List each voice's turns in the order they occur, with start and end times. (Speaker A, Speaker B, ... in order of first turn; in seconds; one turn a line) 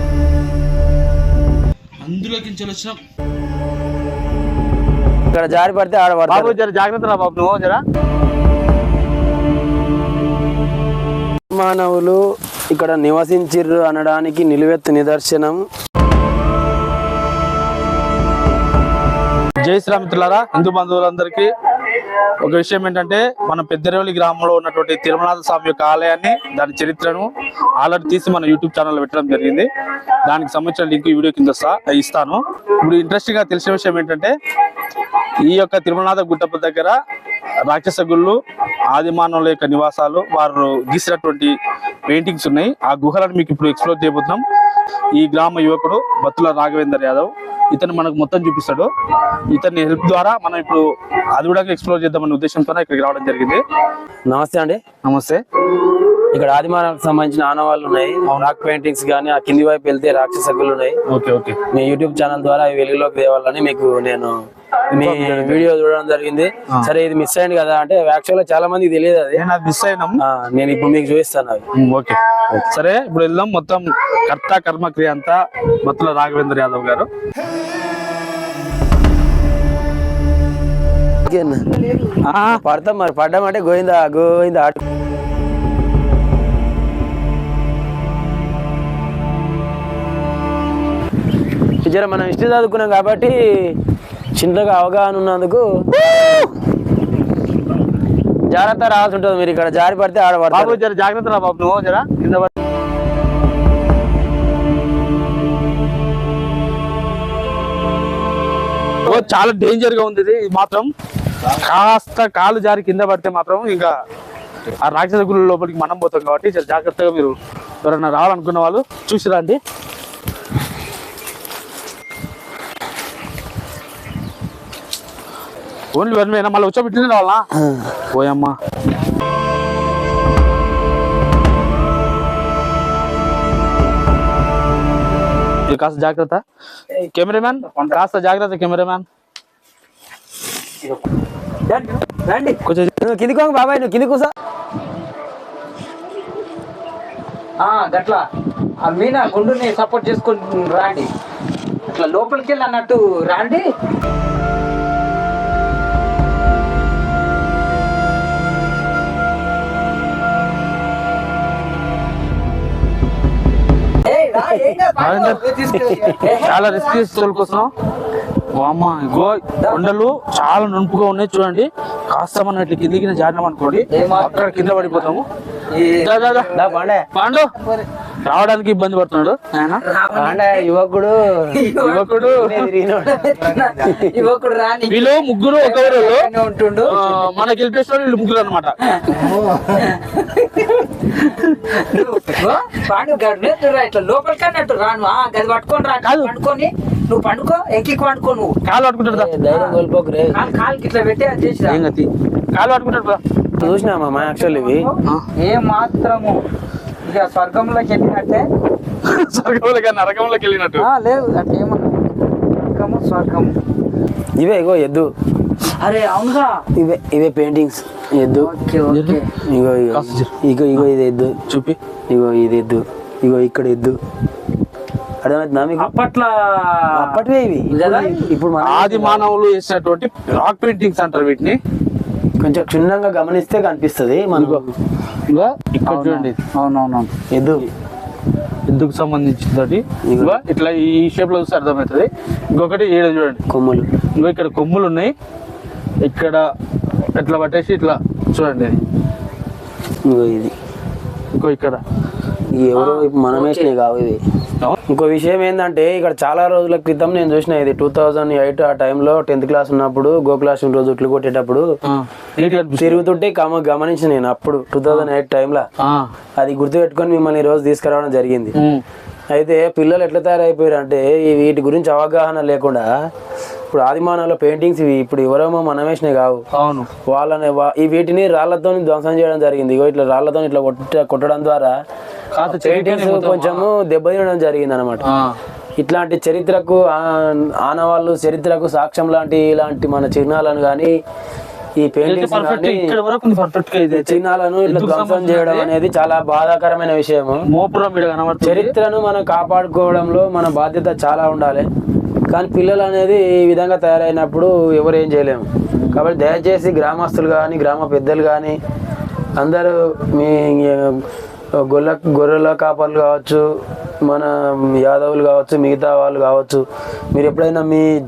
Speaker A: 2.0-3.0
Speaker B: 5.3-6.6
Speaker A: 6.3-7.8
Speaker B: 11.5-12.2
Speaker B: 12.7-15.6
Speaker A: 19.6-29.7
Speaker A: 30.2-34.3
Speaker A: 35.4-37.0
Speaker A: 37.7-38.4
Speaker A: 38.9-41.5
Speaker A: 42.1-44.4
Speaker A: 45.1-48.9
Speaker A: 49.5-50.8
Speaker A: 51.3-53.6
Speaker B: 54.3-54.8
Speaker A: 55.0-55.4
Speaker B: 56.3-61.0
Speaker A: 58.3-58.5
Speaker A: 61.1-61.6
Speaker B: 61.7-64.4
Speaker A: 64.9-65.7
Speaker B: 65.0-69.4
Speaker A: 69.3-70.2
Speaker B: 70.2-71.7
Speaker A: 71.8-77.1
Speaker B: 81.2-81.7
Speaker C: 81.8-82.2
Speaker A: 82.2-82.6
Speaker B: 82.5-84.8
Speaker B: 91.8-93.7
Speaker B: 94.3-96.4
Speaker B: 98.5-100.8
Speaker A: 100.5-102.5
Speaker A: 109.0-110.9
Speaker A: 111.5-113.9
Speaker A: 114.8-119.6
Speaker A: 125.9-127.5
Speaker B: 127.7-127.9
Speaker A: 128.1-128.6
Speaker A: 135.7-136.4
Speaker A: 137.1-139.0
Speaker C: 141.7-142.6
Speaker A: 142.6-142.9
Speaker B: 143.0-144.3
Speaker C: 147.6-148.3
Speaker C: 148.8-151.1
Speaker C: 151.9-153.7
Speaker C: 164.0-167.1
Speaker A: 165.0-165.6
Speaker B: 165.7-166.3
Speaker A: 166.3-167.7
Speaker A: 168.5-175.3
Speaker C: 169.6-169.8
Speaker C: 173.9-175.2
Speaker C: 175.7-176.5
Speaker A: 175.9-177.5
Speaker B: 176.5-177.1
Speaker A: 178.2-179.8
Speaker C: 179.7-180.7
Speaker B: 180.1-184.2
Speaker C: 181.5-182.1
Speaker A: 181.8-182.7
Speaker C: 183.0-187.3
Speaker A: 184.9-186.3
Speaker A: 186.8-188.8
Speaker C: 188.9-198.6
Speaker A: 196.0-196.3
Speaker A: 198.6-199.3
Speaker B: 199.1-200.4
Speaker C: 199.5-199.8
Speaker C: 200.3-201.8
Speaker A: 201.7-203.2
Speaker B: 203.6-204.9
Speaker C: 203.6-206.4
Speaker C: 207.0-208.5
Speaker A: 209.0-210.9
Speaker C: 210.8-213.5
Speaker B: 214.4-215.1
Speaker C: 215.6-216.6
Speaker B: 216.7-218.5
Speaker C: 218.4-219.3
Speaker A: 218.9-219.2
Speaker B: 219.4-221.4
Speaker A: 219.9-220.9
Speaker A: 221.5-221.8
Speaker B: 222.1-224.0
Speaker B: 225.2-225.9
Speaker C: 225.8-228.2
Speaker B: 226.9-229.2
Speaker A: 228.6-231.6
Speaker B: 232.4-234.7
Speaker A: 234.3-234.6
Speaker A: 235.3-236.4
Speaker C: 235.9-237.1
Speaker B: 237.3-237.7
Speaker A: 238.7-243.4
Speaker B: 240.1-240.4
Speaker B: 243.5-243.9
Speaker A: 244.2-245.1
Speaker A: 246.0-246.4
Speaker A: 247.2-248.8
Speaker B: 250.1-250.5
Speaker A: 251.3-251.8
Speaker B: 252.5-254.2
Speaker C: 252.7-253.7
Speaker B: 254.9-261.6
Speaker A: 261.8-263.1
Speaker B: 262.7-265.6
Speaker A: 265.8-266.1
Speaker B: 266.4-268.5
Speaker A: 268.6-268.8
Speaker B: 269.3-272.9
Speaker B: 273.7-276.4
Speaker A: 276.5-276.9
Speaker B: 277.1-281.7
Speaker A: 282.3-283.7
Speaker B: 282.4-285.0
Speaker A: 285.1-285.4
Speaker B: 285.8-290.9
Speaker B: 291.8-292.9
Speaker A: 292.0-295.7
Speaker B: 293.9-297.4
Speaker A: 297.5-298.7
Speaker B: 298.4-301.6
Speaker B: 302.3-308.6
Speaker A: 305.8-306.0
Speaker B: 309.4-311.0
Speaker B: 311.6-313.4
Speaker B: 314.1-316.6
Speaker B: 317.1-317.9